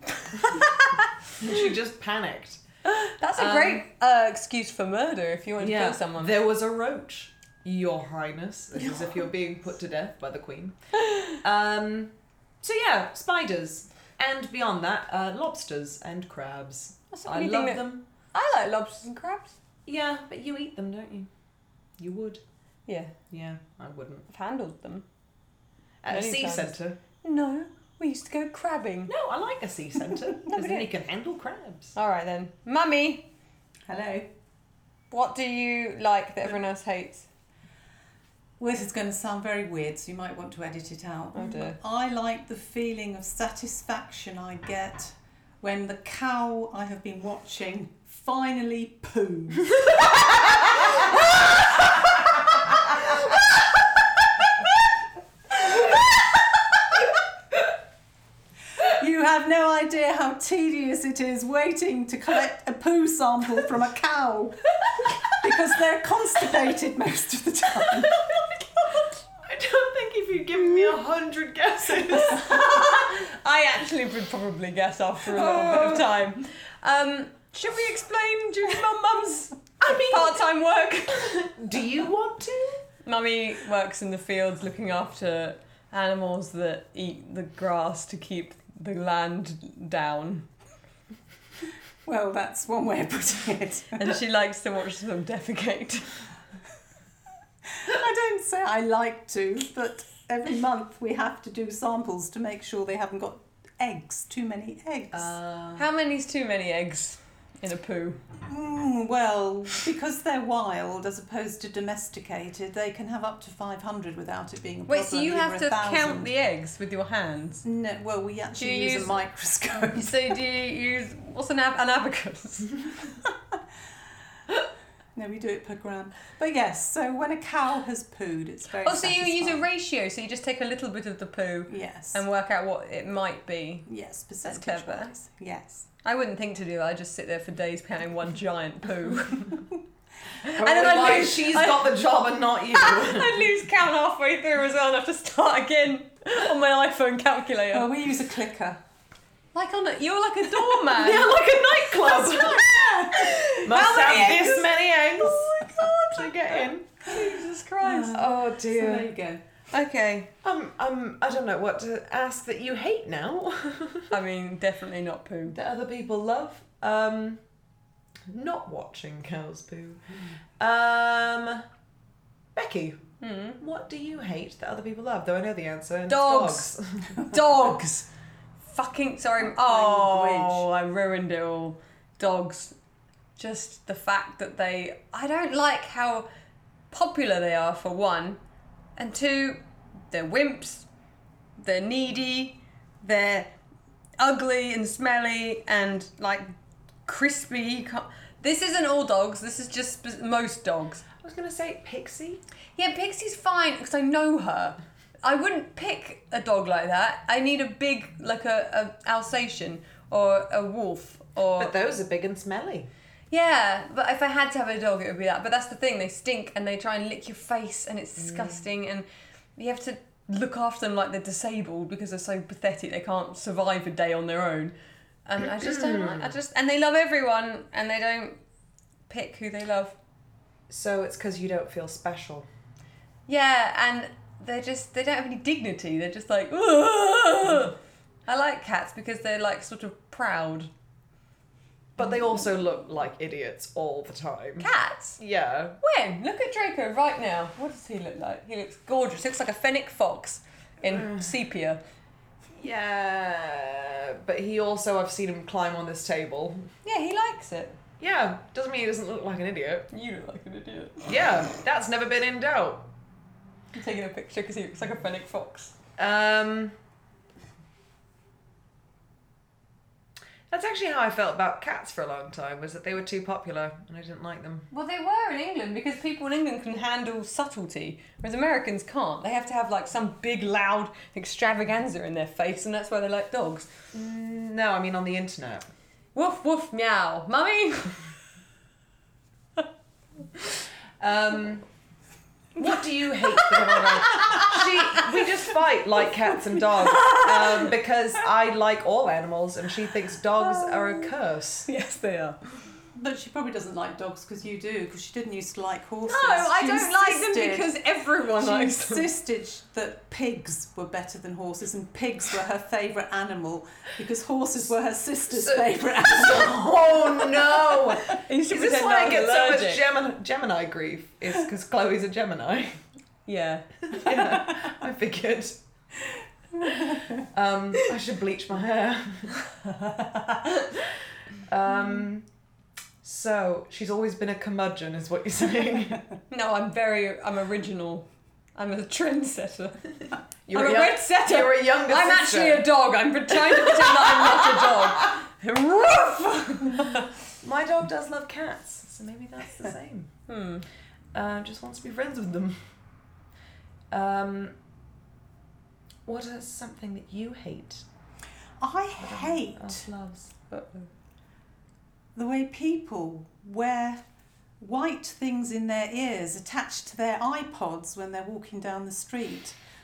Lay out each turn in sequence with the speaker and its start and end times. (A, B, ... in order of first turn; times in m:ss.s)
0:00.3-0:00.7 A
0:00.4-0:01.1 B
0:01.4-0:02.6 A
0:02.9-0:06.4 B
0:03.3-0:03.8 A
0:05.6-0:10.8 A
0:11.3-0:18.0 A
0:17.1-0:19.6 B
0:19.8-0:21.3 A
0:22.0-0:22.4 A
0:22.8-0:23.1 B
0:23.3-0:24.2 A
0:24.3-0:25.0 B
0:26.0-0:27.0 A
0:26.1-0:29.1 B
0:29.1-0:31.9 A
0:30.4-0:30.9 C
0:31.9-0:33.3 B
0:33.9-0:34.3 C
0:35.1-0:37.3 B
0:38.6-0:51.5 C
0:41.3-0:41.8 B
0:58.8-1:04.7 C
1:05.3-1:08.2 C
1:08.2-1:13.1 A
1:12.2-1:21.4 B
1:15.3-1:16.1 A
1:19.8-1:20.4 A
1:21.1-1:22.8 A
1:23.0-1:30.5 B
1:32.0-1:34.1 C
1:33.9-1:36.2 B
1:37.7-1:45.3 C
1:45.1-1:45.9 A
1:45.8-1:48.2 B
1:48.4-1:56.3 C
1:54.9-1:57.6 B
1:57.6-2:00.4 C
1:58.5-1:59.2 B
1:59.9-2:02.9 B
2:05.1-2:09.6 C
2:08.8-2:13.9 B
2:11.7-2:12.2 C
2:13.9-2:15.9 C
2:14.4-2:15.1 B
2:16.0-2:19.6 B
2:20.4-2:21.9 B
2:20.5-2:23.4 A
2:22.7-2:27.9 B
2:27.7-2:28.8 C
2:29.5-2:31.4 B
2:30.8-2:32.6 A
2:31.9-2:33.4 C
2:32.7-2:36.2 B
2:33.6-2:36.9 A
2:37.0-2:38.2 B
2:37.8-2:39.4 C
2:38.1-2:39.1 A
2:39.7-2:40.3 B
2:40.4-2:44.2 A
2:44.1-2:45.6 B
2:45.5-2:47.4 A
2:48.3-2:50.0 A
2:50.6-2:51.6 A
2:52.5-2:53.0 A
2:53.2-2:53.6 B
2:53.6-2:57.1 A
2:56.1-2:58.1 B
2:58.7-3:02.7 B
2:59.6-3:00.6 C
3:03.4-3:06.3 B
3:06.9-3:08.4 B
3:09.0-3:10.9 B
3:11.6-3:13.5 B
3:14.2-3:16.5 B
3:17.0-3:21.0 B
3:21.2-3:22.4 A
3:22.8-3:31.7 B
3:31.6-3:32.9 A
3:33.3-3:44.7 B
3:38.2-3:38.6 A
3:45.2-3:48.4 B
3:45.4-3:46.3 A
3:49.1-3:50.0 B
3:50.7-3:52.5 A
3:53.3-3:57.7 B
3:58.3-4:00.7 B
4:02.0-4:05.8 A
4:04.6-4:05.2 B
4:05.8-4:11.8 B
4:10.8-4:11.3 A
4:12.5-4:16.7 A
4:16.8-4:17.8 B
4:18.0-4:19.9 A
4:19.9-4:21.1 B
4:21.1-4:22.9 A
4:23.7-4:25.8 B
4:26.0-4:26.7 A
4:30.5-4:34.7 A
4:34.7-4:43.7 B
4:43.9-4:45.7 A
4:46.1-4:48.0 B
4:51.0-4:51.6 A
4:52.6-5:01.7 A
4:53.4-4:55.0 B
4:56.8-4:57.7 B
5:00.4-5:01.1 B
5:01.7-5:02.4 B
5:02.9-5:07.7 C
5:06.1-5:09.1 B
5:08.4-5:17.9 C
5:15.3-5:22.8 A
5:18.1-5:19.8 B
5:23.2-5:24.2 B
5:23.9-5:25.6 A
5:27.2-5:29.3 A
5:29.8-5:30.7 B
5:31.4-5:32.3 A
5:33.0-5:36.0 A
5:36.3-5:40.0 B
5:40.5-5:42.7 A
5:40.5-5:47.1 B
5:43.3-5:45.1 A
5:47.4-5:50.1 A
5:50.3-5:50.6 B
5:51.1-5:52.6 A
5:53.9-5:54.6 A
5:56.0-5:57.8 A
5:58.6-5:59.8 C
5:59.0-6:00.3 A
6:00.5-6:00.9 B
6:02.1-6:04.0 C
6:04.6-6:09.6 C